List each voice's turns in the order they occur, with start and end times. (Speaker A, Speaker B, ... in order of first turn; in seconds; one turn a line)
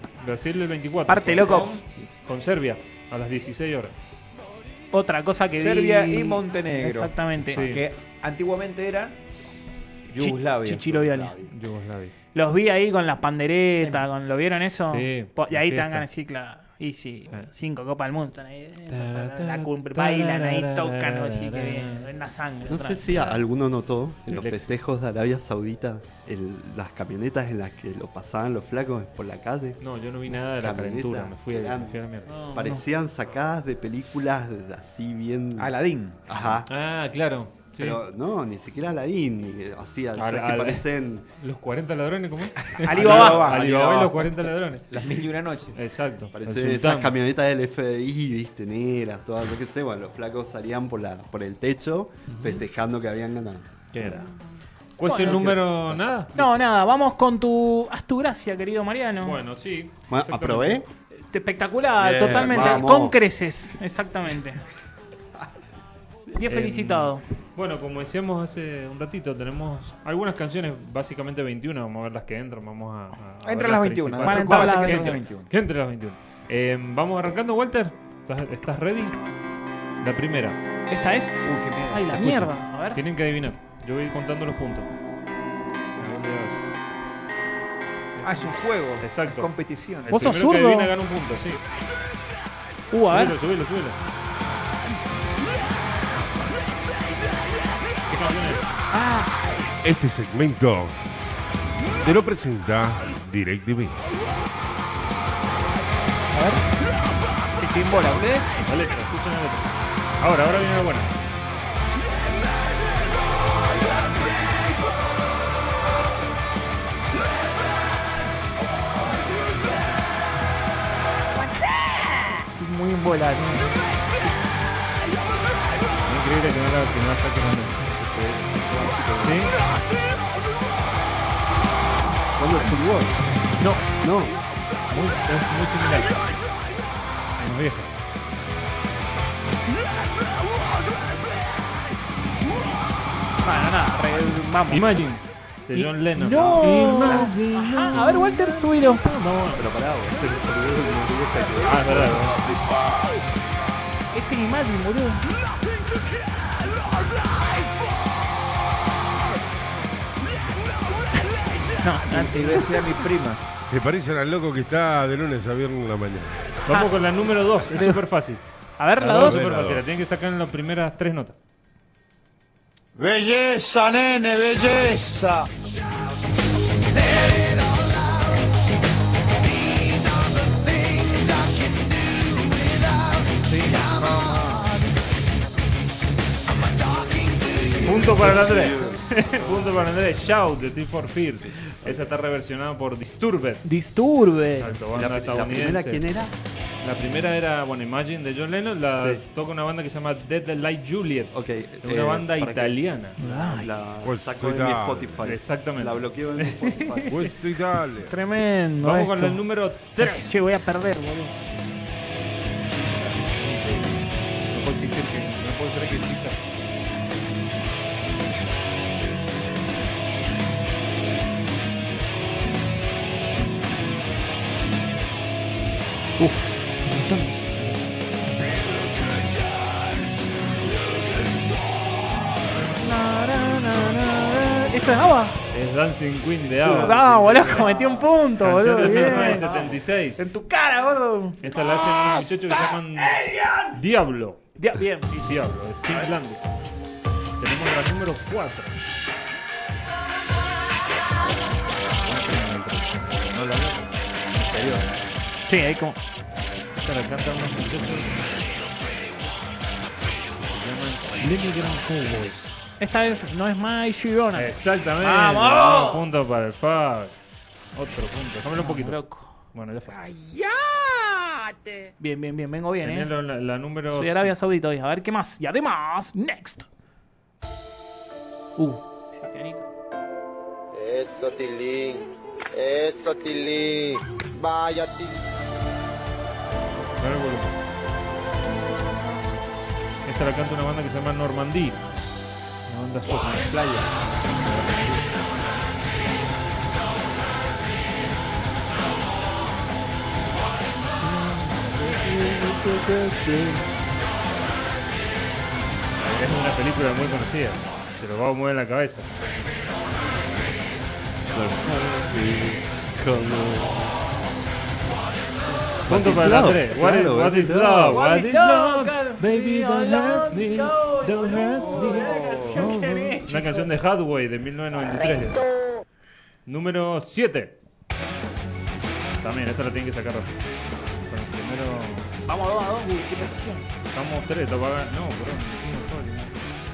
Speaker A: 0.2-3.9
Speaker B: 1.1-1.8
Speaker C: 1.2-1.8
Speaker B: 4.9-7.7
Speaker C: 5.5-9.2
Speaker A: 7.5-7.8
Speaker C: 10.1-11.1
Speaker B: 10.2-11.3
Speaker D: 11.1-11.5
Speaker A: 11.5-12.1
Speaker B: 12.3-23.4
Speaker C: 13.8-14.1
Speaker A: 14.9-16.1
Speaker A: 18.9-22.1
Speaker D: 22.7-29.8
Speaker A: 24.3-24.7
Speaker A: 29.8-32.3
Speaker D: 30.3-32.0
Speaker B: 32.3-32.8
Speaker D: 32.5-36.7
Speaker C: 35.6-36.2
Speaker A: 36.7-38.0
Speaker D: 37.8-41.3
Speaker A: 40.2-40.9
Speaker A: 41.4-44.9
Speaker B: 42.8-43.5
Speaker C: 42.9-44.3
Speaker C: 44.9-45.8
Speaker A: 45.8-47.2
Speaker D: 46.3-53.7
Speaker A: 52.3-52.6
Speaker A: 53.9-54.3
Speaker A: 55.0-56.7
Speaker B: 55.0-55.6
Speaker D: 55.2-55.8
Speaker B: 56.4-59.4
Speaker A: 59.2-60.8
Speaker D: 60.1-60.9
Speaker B: 61.3-64.6
Speaker D: 62.0-63.2
Speaker A: 62.3-62.8
Speaker B: 66.3-67.2
Speaker A: 66.5-79.2
Speaker C: 73.4-75.5
Speaker B: 74.2-75.2
Speaker A: 80.0-80.6
Speaker B: 80.9-83.0
Speaker C: 81.4-82.1
Speaker A: 82.1-84.9
Speaker A: 86.0-86.6
Speaker A: 88.2-89.5
Speaker C: 88.2-90.1
Speaker A: 90.0-91.6
Speaker B: 90.1-90.9
Speaker B: 92.9-93.3
Speaker A: 93.1-94.0
Speaker A: 98.1-98.7
Speaker B: 98.9-99.3
Speaker E: 99.8-101.0
Speaker E: 102.0-104.0
Speaker B: 106.3-106.6
Speaker B: 107.6-108.6
Speaker A: 108.7-111.1
Speaker B: 122.6-123.8
Speaker A: 126.0-128.0
Speaker D: 128.0-129.5
Speaker A: 129.2-129.6
Speaker D: 132.4-133.3
Speaker A: 133.6-133.8
Speaker D: 134.0-134.3
Speaker A: 134.9-136.2
Speaker A: 137.4-137.9
Speaker B: 143.4-144.8
Speaker A: 144.7-148.7
Speaker B: 145.7-149.6
Speaker D: 149.6-152.4
Speaker A: 151.6-152.4
Speaker B: 154.1-155.2
Speaker B: 161.7-162.8
Speaker C: 162.1-163.4
Speaker E: 163.6-166.5
Speaker A: 166.7-168.4
Speaker B: 167.7-168.0
Speaker B: 168.8-169.5
Speaker A: 169.0-171.3
Speaker E: 169.0-169.9
Speaker F: 173.0-175.4
Speaker G: 177.0-178.3
Speaker G: 179.6-183.1
Speaker A: 183.5-183.9
Speaker G: 187.0-187.8
Speaker D: 187.8-189.7
Speaker A: 187.8-193.7
Speaker D: 191.7-192.0
Speaker B: 193.6-194.8
Speaker A: 194.6-196.0
Speaker D: 194.9-196.3
Speaker A: 196.8-203.2
Speaker D: 199.0-199.2
Speaker D: 201.3-207.2
Speaker B: 203.2-203.7
Speaker E: 204.0-205.1
Speaker A: 205.2-206.6
Speaker E: 207.1-208.1
Speaker B: 208.1-209.4
Speaker A: 208.8-210.4
Speaker B: 210.0-211.3
Speaker A: 213.1-214.0
Speaker A: 214.5-216.4
Speaker A: 226.2-227.8
Speaker B: 232.8-235.4
Speaker A: 235.5-237.8
Speaker D: 236.6-238.1
Speaker B: 236.7-241.5
Speaker A: 238.4-240.2
Speaker D: 239.2-239.6
Speaker A: 241.4-244.5
Speaker B: 244.6-245.4
Speaker A: 245.2-246.4
Speaker A: 247.4-248.8
Speaker A: 251.8-254.9
Speaker B: 255.5-256.0
Speaker A: 256.8-258.2
Speaker A: 260.5-262.5
Speaker B: 262.8-266.0
Speaker A: 264.3-267.1
Speaker A: 267.8-269.0
Speaker B: 268.6-269.3
Speaker A: 269.5-270.0
Speaker C: 269.9-270.3
Speaker B: 272.0-273.1
Speaker A: 272.8-274.4
Speaker B: 273.9-276.7
Speaker B: 278.6-279.7
Speaker G: 280.8-282.0
Speaker G: 282.6-283.9
Speaker G: 284.4-285.0
Speaker A: 287.0-287.5
Speaker A: 290.1-291.8
Speaker A: 292.7-293.6
Speaker C: 293.3-295.0
Speaker D: 301.0-303.6
Speaker A: 306.0-309.3
Speaker D: 311.3-314.0
Speaker D: 315.9-318.0
Speaker A: 315.9-325.5
Speaker B: 317.8-323.7
Speaker C: 321.9-322.7
Speaker A: 326.5-327.6
Speaker A: 329.2-330.3
Speaker A: 331.1-332.1
Speaker B: 332.3-333.6
Speaker A: 333.9-336.4